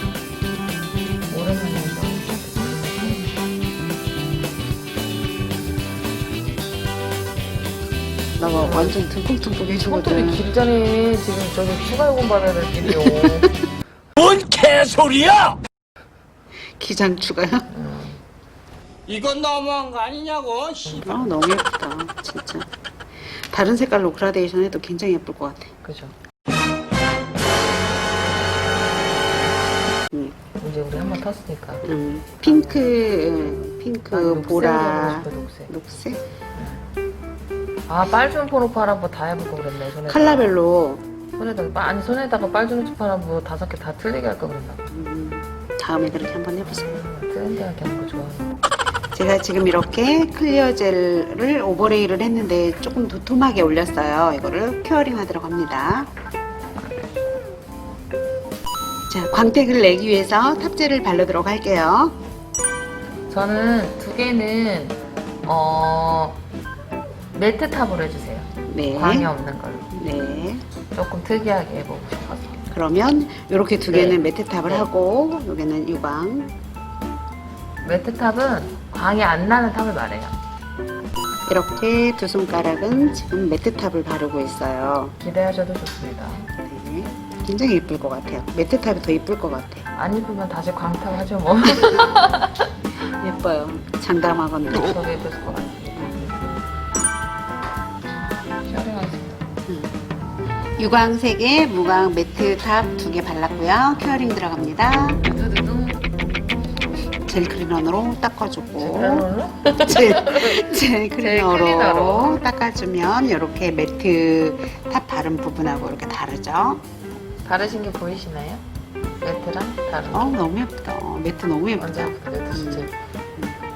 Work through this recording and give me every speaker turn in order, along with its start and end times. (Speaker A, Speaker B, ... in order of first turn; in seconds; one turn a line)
Speaker A: 1.3-3.4
Speaker B: 8.4-10.4
Speaker A: 8.4-9.0
Speaker A: 9.8-13.5
Speaker B: 13.1-13.5
Speaker C: 14.2-15.6
Speaker B: 16.6-17.7
Speaker A: 17.7-18.2
Speaker C: 19.1-21.0
Speaker A: 20.8-21.4
Speaker B: 21.0-22.7
Speaker B: 23.5-25.7
Speaker A: 25.8-26.1
Speaker A: 30.6-33.4
Speaker B: 31.8-36.3
Speaker A: 34.1-35.8
Speaker A: 36.5-36.9
Speaker A: 37.9-40.5
Speaker B: 40.1-41.0
Speaker A: 41.4-44.9
Speaker B: 44.9-46.9
Speaker A: 46.6-48.6
Speaker B: 49.1-56.1
Speaker B: 59.1-62.1
Speaker A: 63.3-66.4
Speaker A: 67.3-69.9
Speaker B: 68.7-69.3
Speaker B: 69.9-70.6
Speaker A: 70.9-72.7
Speaker B: 72.7-76.5
Speaker A: 73.9-74.9
Speaker A: 77.8-80.3
Speaker B: 81.5-85.1
Speaker A: 85.2-86.5
Speaker B: 86.6-89.9
Speaker A: 89.9-92.7
Speaker B: 93.2-95.0
Speaker A: 94.7-96.5
Speaker A: 98.6-99.4
Speaker B: 99.7-99.9
Speaker B: 100.8-105.2
Speaker A: 105.2-106.1
Speaker B: 107.2-109.3
Speaker A: 108.8-112.4
Speaker B: 109.8-116.8
Speaker A: 117.4-118.6
Speaker A: 119.2-120.4
Speaker B: 120.1-123.5
Speaker A: 121.8-122.9